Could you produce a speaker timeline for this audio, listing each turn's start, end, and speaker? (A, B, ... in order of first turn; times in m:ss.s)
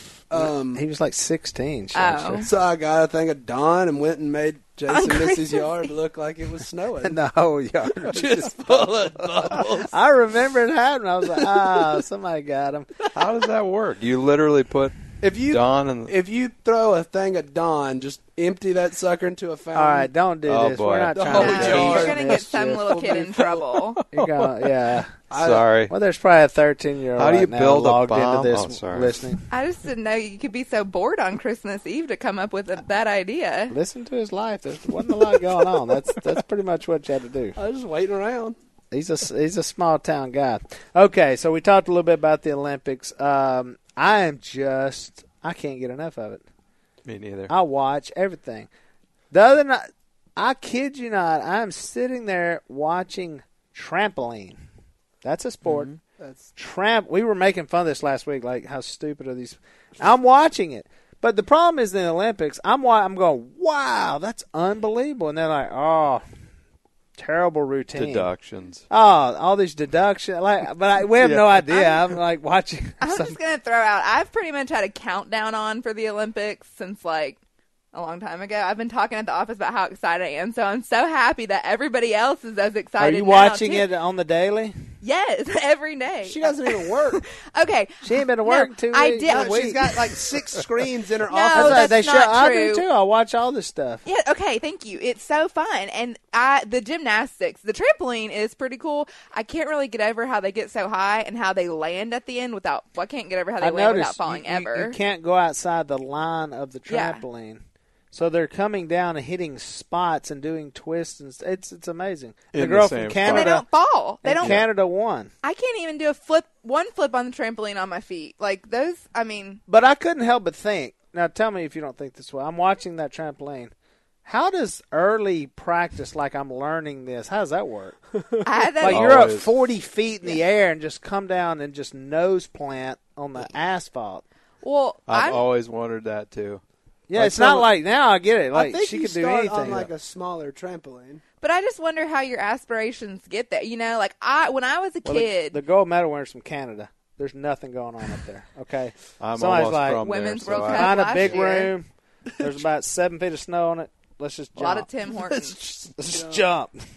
0:00.3-0:00.8 A
0:00.4-0:02.5 B
0:01.9-0:02.5 C
0:02.4-0:07.2 A
0:04.9-0:05.9 C
0:07.0-0:12.9 B
0:08.0-0:10.0 A
0:11.4-0:11.9 A
0:13.1-0:16.1 D
0:15.2-0:20.1 A
0:19.7-0:23.0 B
0:20.5-0:22.0 D
0:21.1-0:23.9 A
0:21.3-0:24.0 C
0:24.1-0:25.2 B
0:25.3-0:25.7 A
0:25.3-0:25.9 D
0:25.9-0:29.4 B
0:27.2-0:29.1 D
0:29.5-0:33.8 C
0:33.7-0:37.6 B
0:37.6-0:38.6 A
0:38.9-0:46.4 B
0:47.0-0:47.5 D
0:47.5-0:48.7 B
0:49.3-0:49.8 B
0:50.4-0:54.6 B
0:55.2-0:55.9 B
0:55.6-0:56.0 D
0:56.2-0:56.5 A
0:56.6-1:06.2 B
1:07.2-1:08.3 B
1:08.0-1:08.8 D
1:08.9-1:13.4 B
1:11.2-1:11.8 D
1:13.0-1:17.4 C
1:17.9-1:23.9 C
1:23.0-1:24.7 B
1:25.0-1:30.0 C
1:26.3-1:27.2 A
1:28.0-1:30.1 B
1:29.3-1:31.9 A
1:31.3-1:32.8 C
1:31.5-1:34.0 B
1:34.0-1:45.0 C
1:43.6-1:53.6 B
1:46.9-1:47.2 C
1:52.5-1:53.6 D
1:53.2-1:54.6 C
1:54.2-1:55.3 B
1:55.4-1:59.6 C
1:59.7-2:03.7 B
2:04.2-2:08.0 B
2:08.4-2:09.2 C
2:08.8-2:14.2 B
2:08.8-2:09.5 D
2:14.6-2:15.4 C
2:15.1-2:16.6 D
2:17.1-2:19.9 B
2:17.2-2:17.6 D
2:18.5-2:21.2 A
2:21.4-2:25.6 C
2:25.0-2:31.9 B
2:29.2-2:31.3 D
2:30.0-2:31.7 C
2:32.4-2:36.8 B
2:34.6-2:35.6 C
2:36.0-2:36.4 A